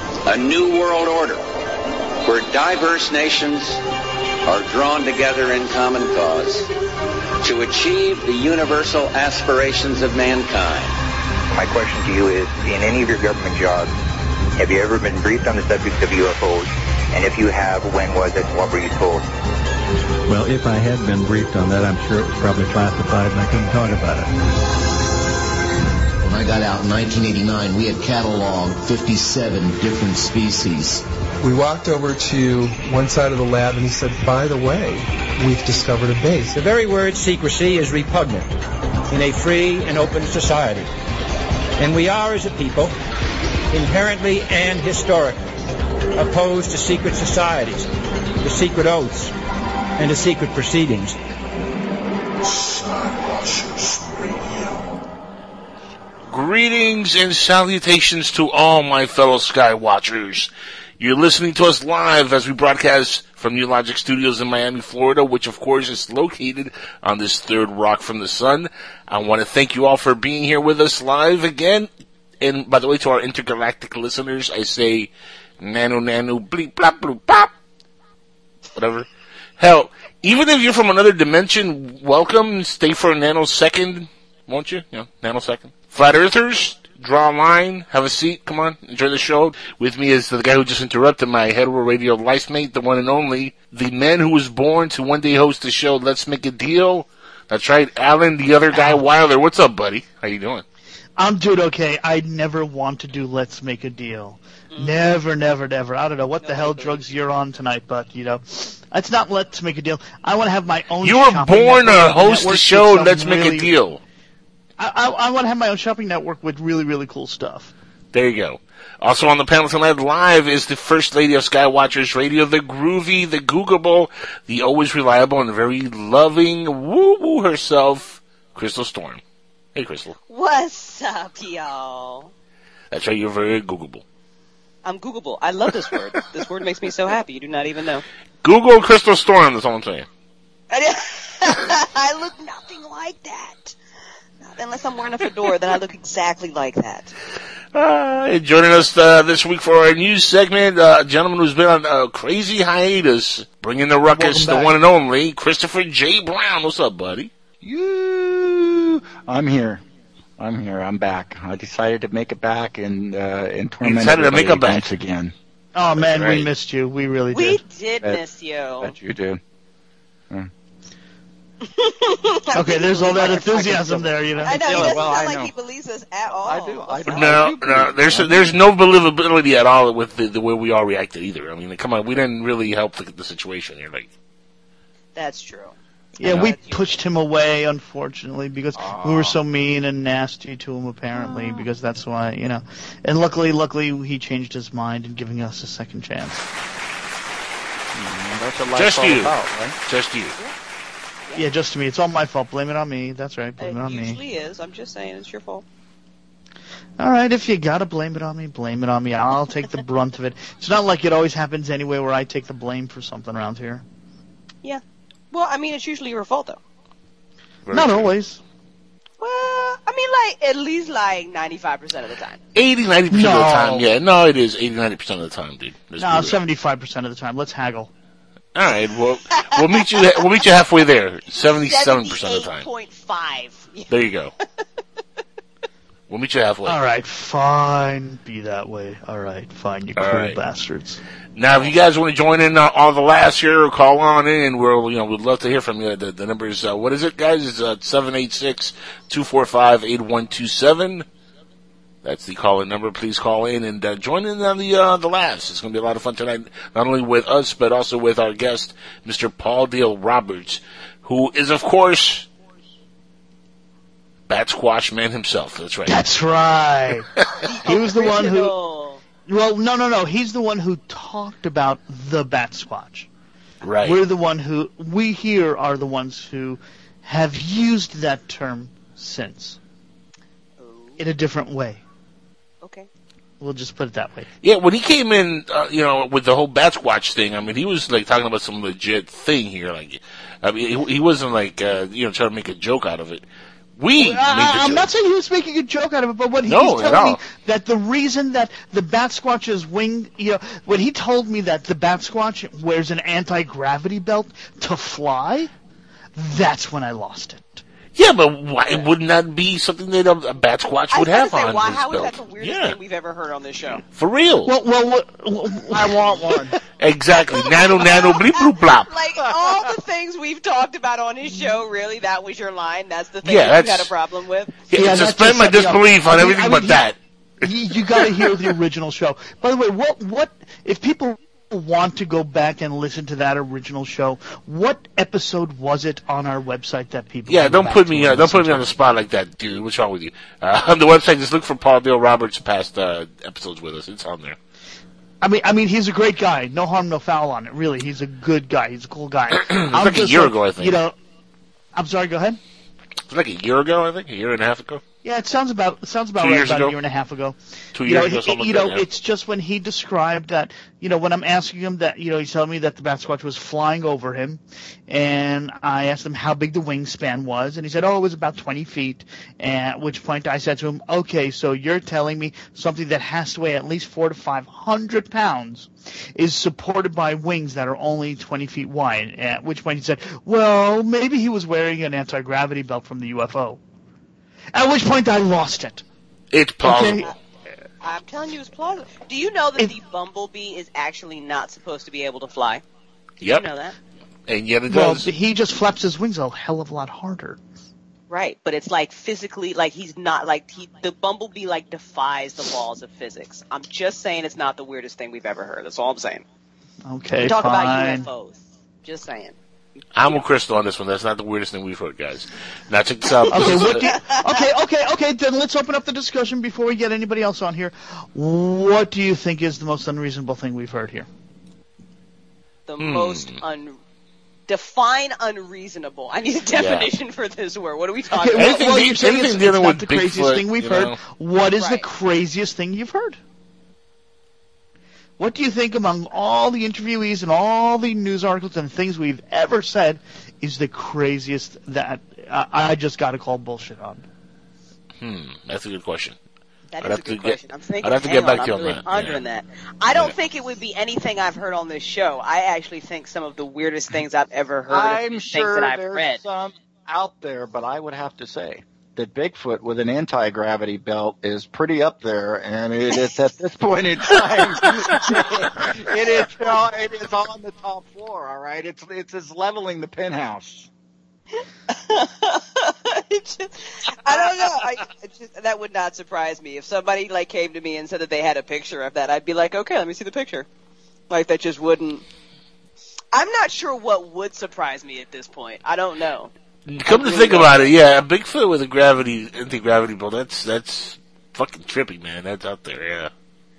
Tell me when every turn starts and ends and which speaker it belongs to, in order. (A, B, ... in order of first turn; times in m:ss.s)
0:00.2-0:01.4 A
0:02.2-0:03.8 A
0:04.4-0:06.7 A
0:07.4-0:11.0 A
0:11.5-0:13.9 B
0:14.6-0:19.3 B
0:20.3-0:24.3 C
0:26.2-0:31.0 D
0:31.4-0:36.6 E
0:36.5-0:38.5 F
0:39.1-0:40.9 F
0:41.8-0:43.0 F
0:43.7-0:45.4 F
0:46.1-0:49.3 F
0:50.0-0:51.2 F
0:56.3-1:11.9 G
1:12.4-1:17.5 G
1:18.7-1:19.1 G
1:19.6-1:40.6 G
1:38.7-1:39.0 H
1:41.2-1:53.7 H
1:44.7-1:45.0 I
1:46.4-1:47.0 I
1:51.0-1:54.0 G
1:54.8-1:57.7 H
1:58.1-2:09.2 G
2:09.7-2:10.2 G
2:10.3-2:12.3 I
2:12.9-2:14.0 G
2:14.8-2:18.0 I
2:18.4-2:20.1 G
2:20.7-2:23.8 I
2:24.4-2:27.1 I
2:27.7-2:37.3 G
2:34.1-2:34.7 H
2:37.6-2:39.8 J
2:40.4-2:45.3 J
2:43.8-2:44.8 G
2:45.7-2:47.6 H
2:46.0-2:46.5 G
2:47.3-2:49.0 I
2:48.8-2:49.4 J
2:51.6-2:53.8 I
2:52.5-2:54.9 H
2:52.7-2:55.5 J
2:54.4-2:57.5 I
2:56.4-2:58.6 J
2:57.1-3:04.1 G
3:05.1-3:07.0 I
3:06.2-3:16.4 H
3:06.2-3:06.5 J
3:08.7-3:09.4 J
3:11.2-3:11.6 I
3:17.9-3:19.8 J
3:18.7-3:19.3 G
3:19.8-3:20.3 G
3:21.3-3:24.2 H
3:23.6-3:25.6 I
3:27.0-3:33.8 H
3:34.6-3:36.6 I
3:37.6-3:38.1 G
3:37.7-3:38.4 H
3:39.2-3:42.4 I
3:42.5-3:46.4 G
3:43.1-3:43.9 H
3:46.0-3:47.9 H
3:48.5-3:52.7 G
3:49.5-3:50.2 I
3:51.5-3:53.9 I
3:53.9-3:54.3 G
3:56.1-3:56.8 G
3:56.6-4:01.0 H
4:00.0-4:00.4 G
4:01.4-4:11.0 G
4:12.0-4:22.3 G
4:24.3-4:26.0 G
4:25.9-4:27.1 H
4:27.4-4:29.0 I
4:27.6-4:28.5 H
4:29.2-4:33.1 H
4:33.6-4:34.0 G
4:33.8-4:39.6 H
4:40.6-4:41.0 I
4:41.0-4:41.8 H
4:42.6-4:42.9 I
4:43.4-4:44.3 H
4:44.4-4:53.2 G
4:53.8-4:54.9 G
4:54.0-5:05.5 H
4:56.5-4:57.2 G
5:06.2-5:07.6 H
5:07.9-5:12.8 G
5:10.9-5:13.8 I
5:13.9-5:14.5 G
5:14.4-5:16.1 H
5:15.7-5:16.6 J
5:16.8-5:18.9 G
5:17.3-5:24.6 I
5:19.3-5:19.7 J
5:23.2-5:23.9 G
5:24.7-5:27.0 G
5:24.7-5:26.8 H
5:27.4-5:38.7 H
5:28.0-5:28.2 G
5:37.3-5:44.4 G
5:45.2-5:50.9 H
5:49.3-5:50.8 G
5:51.7-5:52.4 H
5:53.1-5:54.8 G
5:55.0-6:23.6 H
5:56.2-5:56.7 G
5:57.7-5:58.8 G
6:24.5-6:25.8 H
6:26.3-6:27.1 G
6:26.6-6:27.1 H
6:27.8-6:32.6 I
6:33.2-6:33.8 I
6:34.3-6:35.1 G
6:34.7-6:37.4 H
6:38.1-6:46.2 I
6:46.8-6:48.1 H
6:47.2-6:49.4 I
6:49.9-6:53.9 G
6:53.2-6:54.0 I
6:53.3-7:01.1 H
7:02.7-7:03.8 I
7:02.8-7:03.4 G
7:04.5-7:08.6 I
7:06.5-7:06.9 G
7:08.2-7:13.2 H
7:08.3-7:11.0 G
7:11.6-7:11.9 I
7:15.2-7:24.0 H
7:25.0-7:26.2 G
7:26.7-7:36.2 I
7:26.8-7:29.2 G
7:34.7-7:50.7 J
7:45.0-7:46.2 I
7:51.7-8:00.4 I
7:54.0-7:54.6 J
8:01.1-8:02.0 I
8:03.1-8:06.3 I
8:06.7-8:13.1 G
8:06.8-8:07.7 I